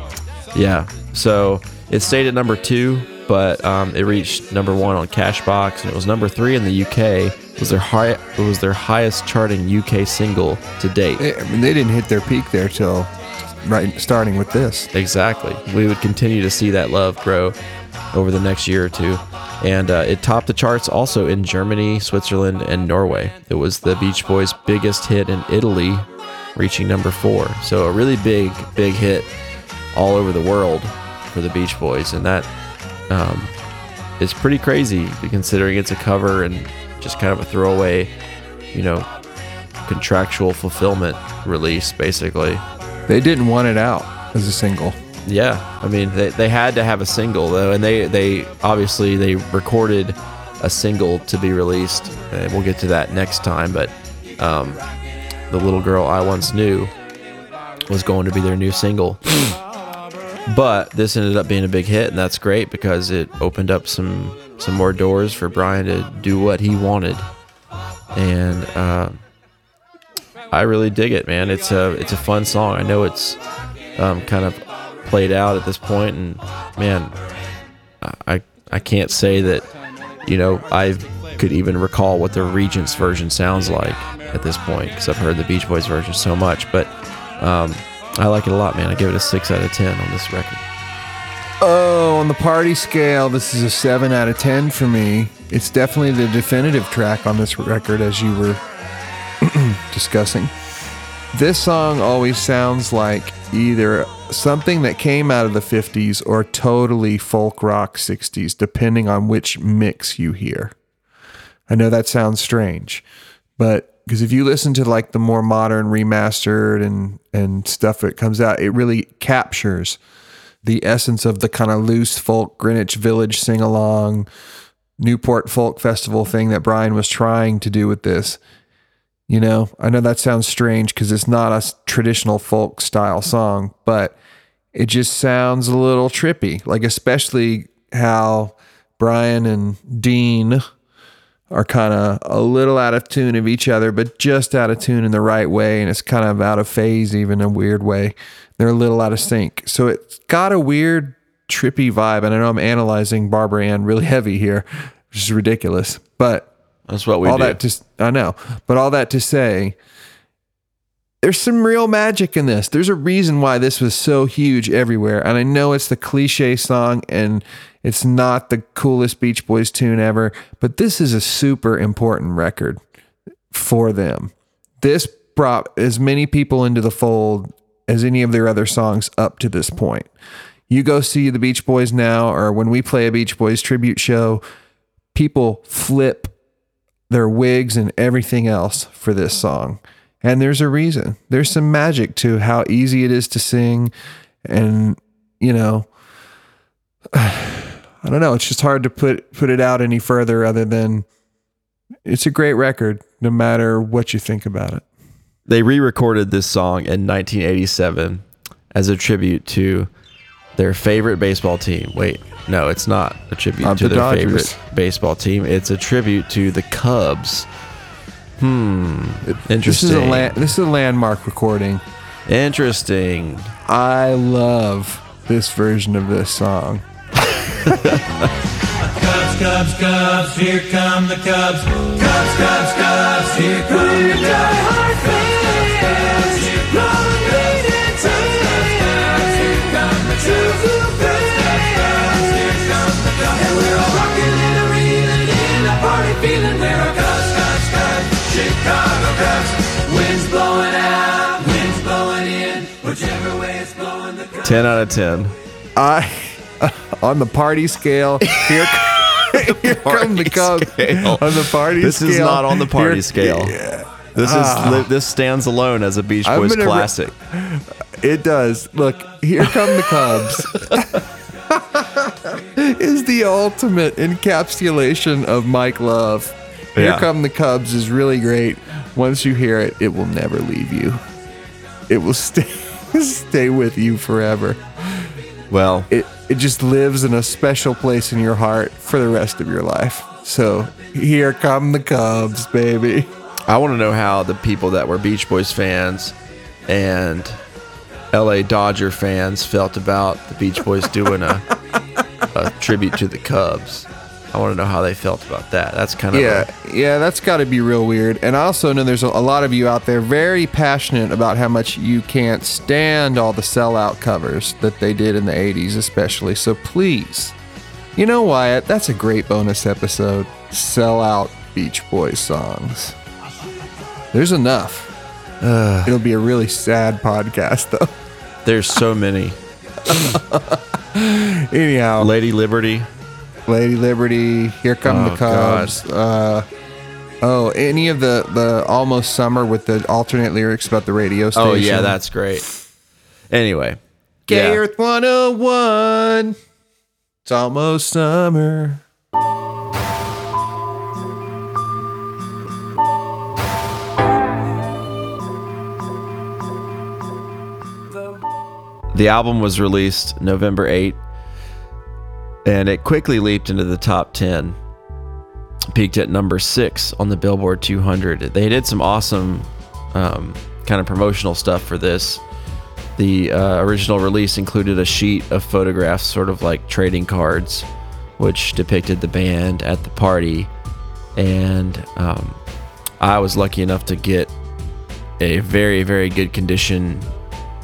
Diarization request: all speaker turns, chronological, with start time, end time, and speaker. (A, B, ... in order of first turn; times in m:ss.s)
0:00.5-0:11.2 A
0:11.2-0:13.1 B
0:13.6-0:14.9 B
0:14.9-0:17.6 A
0:18.1-0:29.3 A
0:29.9-0:32.5 A
0:33.1-0:33.5 A
0:34.2-0:38.1 A
0:38.7-0:39.1 A
0:39.8-0:42.6 A
0:43.1-0:45.0 B
0:45.2-0:54.8 A
0:55.5-0:56.9 A
0:57.9-0:59.2 A
1:00.5-1:07.3 A
1:08.1-1:09.2 A
1:10.5-1:13.4 A
1:14.0-1:17.2 A
1:18.0-1:19.7 A
1:20.2-1:30.6 A
1:31.6-1:38.6 B
1:39.4-1:40.5 B
1:41.3-1:50.7 B
1:51.7-1:53.0 B
1:53.6-2:00.0 B
2:00.6-2:04.3 B
2:05.0-2:08.4 B
2:09.3-2:14.1 B
2:14.7-2:20.6 B
2:21.5-2:36.5 B
2:36.9-2:37.6 A
2:37.2-2:39.8 B
2:41.2-2:52.8 B
2:53.5-3:00.1 B
3:00.7-3:04.4 B
3:05.1-3:06.3 B
3:07.1-3:13.9 B
3:14.4-3:15.9 B
3:17.1-3:21.0 B
3:22.0-3:24.8 B
3:25.5-3:29.9 A
3:30.6-3:37.5 A
3:33.6-3:34.6 B
3:38.4-3:40.4 A
3:39.3-3:41.8 B
3:42.3-3:43.5 A
3:43.6-3:46.8 B
3:47.6-3:48.0 A
3:49.0-4:14.4 C
4:14.4-4:15.3 A
4:15.8-4:24.9 B
4:18.2-4:23.6 A
4:24.1-4:27.1 A
4:26.2-4:41.0 B
4:30.2-4:30.8 A
4:36.8-4:37.1 A
4:41.9-4:45.1 B
4:45.5-4:45.9 A
4:45.9-4:53.1 B
4:53.5-4:56.1 A
4:56.7-4:57.4 A
4:58.1-5:01.5 A
5:02.3-5:06.5 A
5:06.1-5:17.3 B
5:18.0-5:23.0 B
5:24.1-5:24.9 B
5:25.4-5:25.9 A
5:25.8-5:27.9 B
5:28.4-5:29.4 A
5:29.9-5:32.1 B
5:32.0-5:32.9 A
5:33.5-5:36.5 B
5:34.8-5:35.8 A
5:37.2-5:42.0 B
5:41.3-5:42.5 A
5:43.3-5:44.6 A
5:44.3-5:46.4 B
5:47.2-5:48.8 B
5:58.9-6:01.0 A
6:02.4-6:04.6 A
6:05.7-6:12.2 A
6:13.0-6:17.7 A
6:18.2-6:20.5 A
6:21.2-6:22.4 A
6:23.0-6:24.3 A
6:25.2-6:27.1 A